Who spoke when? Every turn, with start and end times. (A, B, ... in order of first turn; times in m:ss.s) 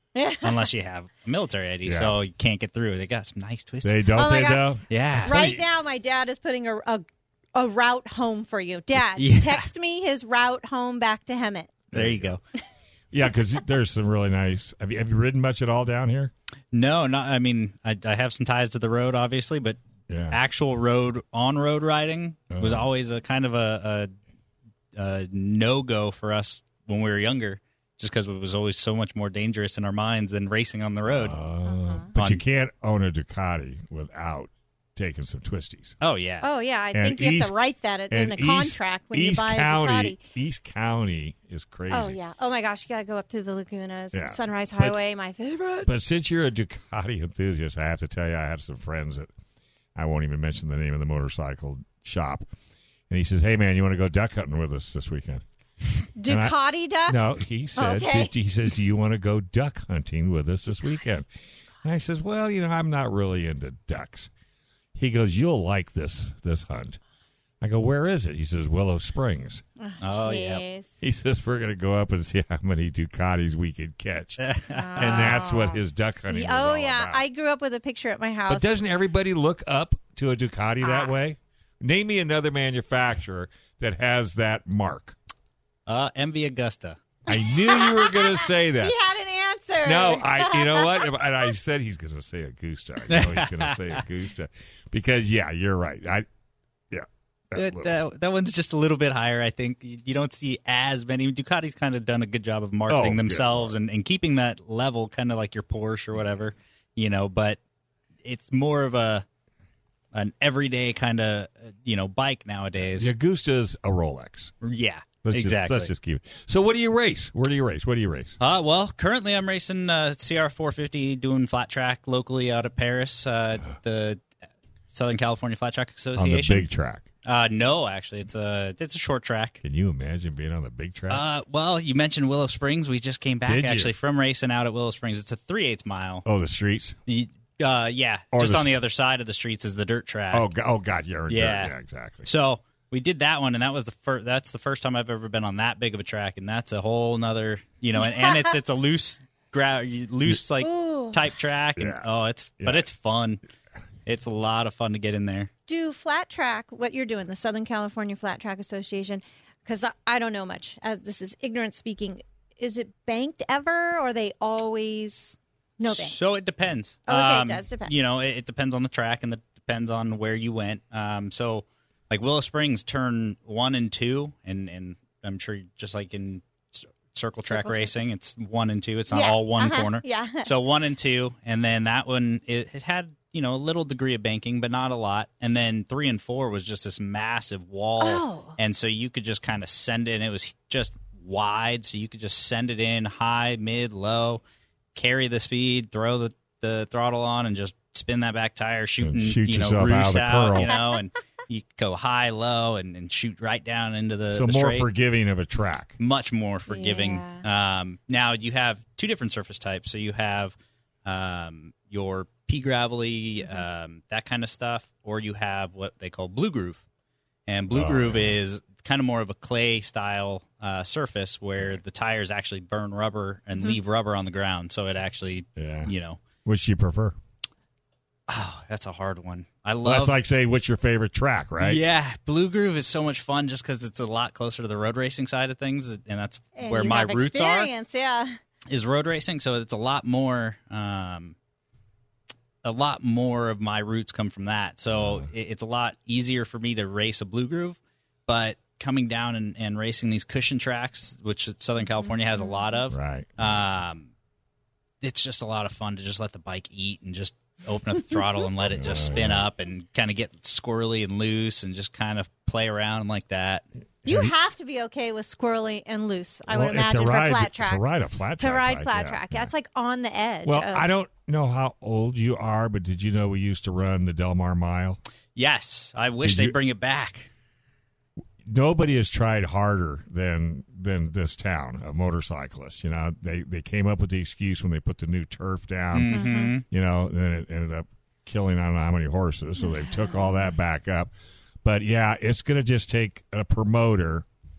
0:00.2-0:00.7 A
0:00.4-0:04.1 B
0:01.8-0:02.2 C
0:03.8-0:05.6 C
0:04.2-0:04.7 A
0:04.9-0:05.4 B
0:05.2-0:11.7 A
0:09.2-0:09.7 B
0:11.9-0:12.4 C
0:11.9-0:12.4 B
0:13.1-0:16.3 C
0:16.7-0:19.8 B
0:20.1-0:20.4 C
0:20.3-0:24.1 B
0:22.5-0:22.9 C
0:25.0-0:31.4 B
0:31.1-0:36.0 C
0:31.6-0:32.1 A
0:32.2-0:32.4 B
0:36.0-0:36.5 B
0:36.4-0:40.2 A
0:36.9-0:37.6 C
0:38.1-0:42.2 C
0:41.9-0:45.9 A
0:44.1-0:45.0 C
0:45.9-0:49.3 C
0:50.0-0:52.5 C
0:53.1-0:55.4 C
0:56.2-0:57.2 A
0:56.2-1:01.3 C
0:57.8-0:58.3 A
1:01.8-1:04.3 C
1:05.0-1:07.0 C
1:07.6-1:09.6 C
1:09.8-1:10.9 A
1:10.0-1:10.6 B
1:11.0-1:14.4 C
1:14.4-1:15.4 B
1:14.7-1:18.7 A
1:15.0-1:17.2 C
1:18.5-1:25.2 C
1:20.8-1:21.1 A
1:25.9-1:27.0 B
1:27.3-1:29.0 C
1:27.3-1:31.1 A
1:29.8-1:36.3 C
1:33.1-1:34.0 B
1:36.9-1:38.0 C
1:37.6-1:47.6 B
1:42.9-1:43.8 C
1:48.2-1:49.2 B
1:50.1-1:53.1 B
1:52.8-1:54.5 C
1:54.6-1:55.9 B
1:55.2-1:58.4 C
1:58.4-2:04.2 B
2:04.9-2:06.7 B
2:06.2-2:07.1 C
2:07.2-2:09.6 B
2:09.6-2:11.2 C
2:11.1-2:16.3 B
2:13.4-2:13.9 C
2:16.2-2:17.0 C
2:17.1-2:20.5 B
2:18.3-2:18.7 C
2:20.3-2:22.3 C
2:21.3-2:33.4 B
2:30.6-2:31.2 A
2:31.8-2:32.1 C
2:32.6-2:32.9 C
2:34.1-2:35.5 B
2:35.7-2:46.2 A
2:45.8-3:14.4 B
2:47.1-2:47.9 A
2:57.5-2:58.0 A
2:59.1-3:00.5 A
3:08.0-3:08.6 A
3:15.0-3:24.9 B
3:19.0-3:20.7 C
3:20.7-3:21.0 A
3:24.3-3:26.0 C
3:26.0-3:30.5 B
3:26.7-3:27.4 A
3:31.0-3:36.8 B
3:37.5-3:46.2 B
3:37.7-3:38.4 C
3:45.6-3:45.9 C
3:46.4-3:47.2 C
3:48.3-3:50.1 B
3:49.8-3:51.8 C
3:51.6-3:57.7 B
3:56.6-3:58.3 A
3:58.7-4:01.4 B
4:02.6-4:14.1 B
4:04.9-4:05.3 C
4:12.0-4:12.6 A
4:12.9-4:13.6 C
4:15.0-4:23.6 B
4:18.7-4:19.5 C
4:24.0-4:24.3 C
4:24.1-4:27.8 A
4:26.5-4:29.5 C
4:28.4-4:30.9 A
4:30.4-4:35.0 C
4:35.4-4:37.3 B
4:36.2-4:36.6 C
4:38.4-4:51.1 C
4:45.9-4:46.6 B
4:46.1-4:46.6 A
4:49.6-4:50.4 A
4:51.6-4:54.3 C